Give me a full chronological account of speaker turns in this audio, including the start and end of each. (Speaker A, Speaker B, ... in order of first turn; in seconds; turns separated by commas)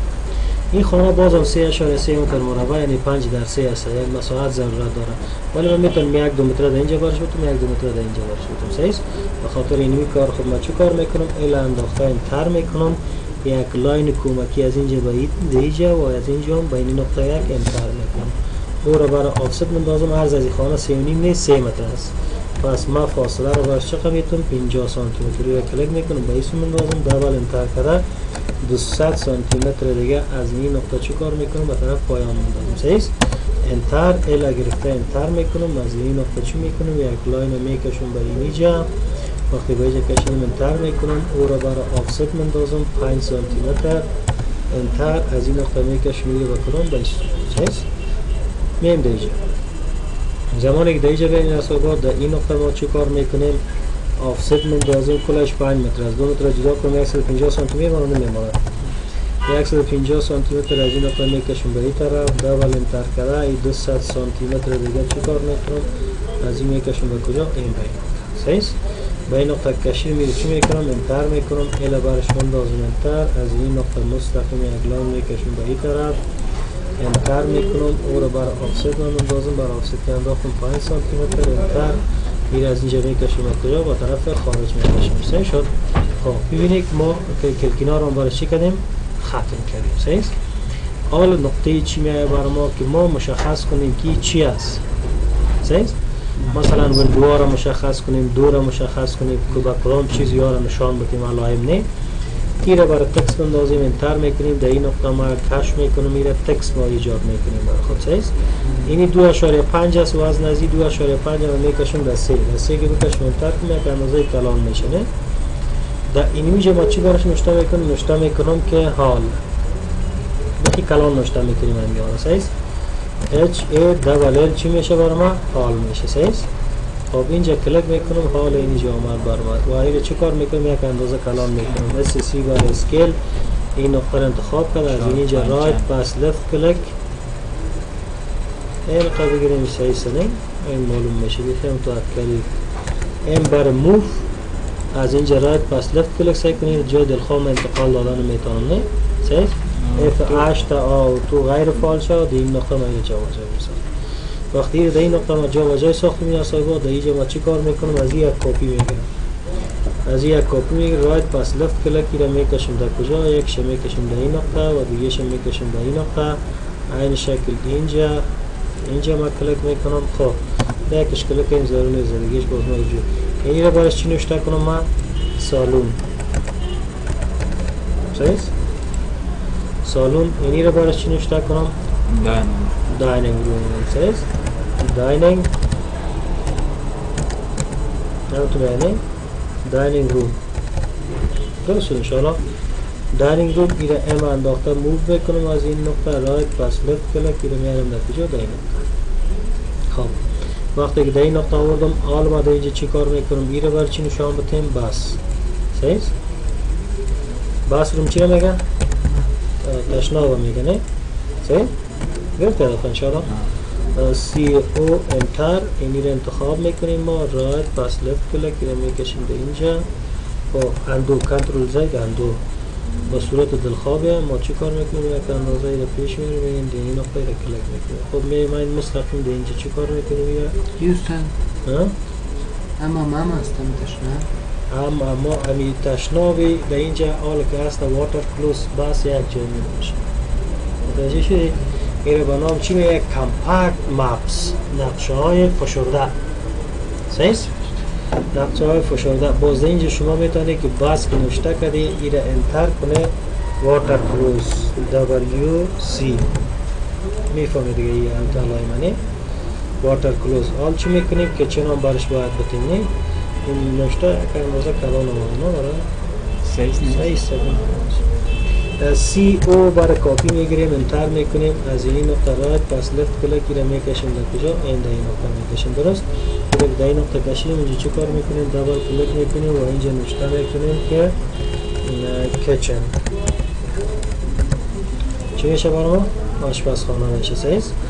Speaker A: 0.7-28.0, Speaker A: 28.6-38.9, Speaker A: 39.5-44.1, Speaker A: 44.7-47.9, Speaker A: 48.8-49.4, Speaker A: 50.5-53.6, Speaker A: 54.2-58.6, Speaker A: 59.5-65.9, Speaker A: 66.4-76.2, Speaker A: 77.0-90.3, Speaker A: 91.1-94.8, Speaker A: 95.6-101.9, Speaker A: 102.6-115.1, Speaker B: 108.6-108.9, Speaker A: 116.1-119.4, Speaker A: 120.6-122.5, Speaker A: 123.3-126.5, Speaker A: 127.1-133.2, Speaker C: 131.6-132.0, Speaker A: 133.8-136.9, Speaker C: 134.9-135.9, Speaker A: 138.8-142.5, Speaker A: 143.2-144.2, Speaker A: 144.9-153.8, Speaker C: 149.8-150.5, Speaker A: 154.5-159.1, Speaker A: 160.1-168.2, Speaker A: 168.8-176.0, Speaker A: 178.1-178.5, Speaker A: 179.8-181.7, Speaker C: 182.1-182.8, Speaker A: 182.9-184.3, Speaker A: 184.8-185.5, Speaker A: 188.3-189.0, Speaker A: 189.6-190.4, Speaker A: 191.6-192.4, Speaker A: 193.1-198.8, Speaker A: 199.9-200.2, Speaker A: 200.7-205.2, Speaker A: 205.7-206.1, Speaker A: 207.7-208.6, Speaker A: 209.6-210.8, Speaker A: 211.4-211.7, Speaker A: 212.4-213.3, Speaker A: 213.9-219.9, Speaker A: 220.5-222.4, Speaker A: 223.1-230.6, Speaker B: 230.8-231.3, Speaker A: 231.6-231.9, Speaker B: 232.8-234.3, Speaker A: 234.7-240.0, Speaker A: 240.8-246.2, Speaker A: 247.1-247.5, Speaker A: 248.3-256.3, Speaker A: 257.3-259.0, Speaker A: 259.8-262.9, Speaker A: 263.4-265.9, Speaker C: 266.4-267.1, Speaker A: 266.8-268.0, Speaker A: 268.8-281.1, Speaker A: 281.8-282.9, Speaker A: 285.4-287.7